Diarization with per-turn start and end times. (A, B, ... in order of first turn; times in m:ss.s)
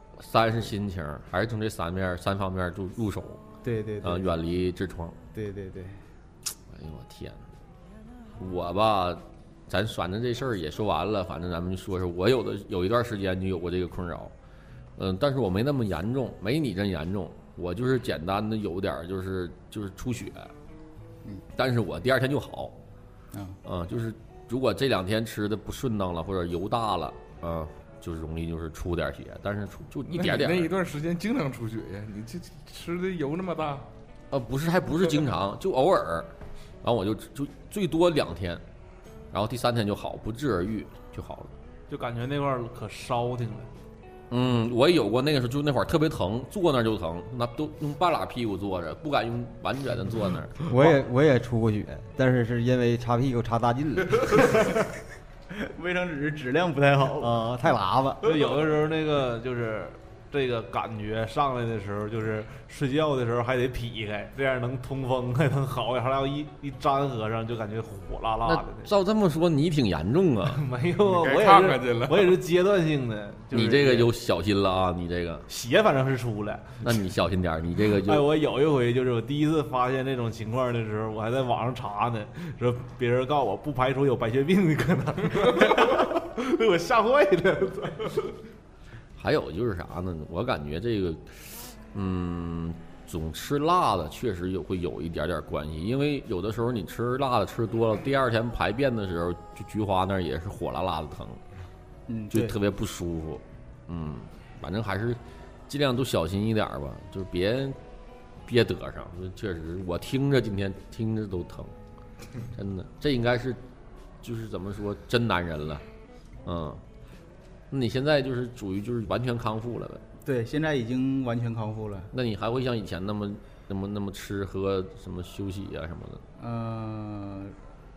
0:00.2-0:03.4 A
0:03.6-0:04.3 B
0:04.0-0:05.2 A
0:05.3-0:06.0 B
0:06.7-0:07.4 A
0:08.4-0:14.3 A
0:15.0-0:20.5 A
0:21.5-0:22.7 A
0:23.6-0:30.7 A
0:30.1-0:33.9 C
0:34.3-0:36.3 A
0:36.8-0:38.6 A
0:39.3-0:41.5 A
0:41.9-0:43.7 D
0:44.3-0:50.6 A
0:50.6-0:54.7 E
0:55.5-0:57.4 B
0:57.2-0:58.3 E
0:58.2-1:08.9 D
1:08.4-1:10.6 A
1:10.5-1:14.1 D
1:11.0-1:12.4 C
1:13.5-1:15.5 A
1:15.5-1:17.0 D
1:16.8-1:18.2 A
1:17.9-1:28.3 D
1:29.2-1:41.4 A
1:42.1-1:42.5 B
1:42.3-1:47.8 A
1:48.5-1:51.7 A
1:52.5-1:53.6 A
1:54.2-1:55.8 A
1:56.4-1:56.8 A
1:57.7-2:00.0 A
2:00.2-2:02.1 B
2:02.1-2:06.2 A
2:06.4-2:07.6 B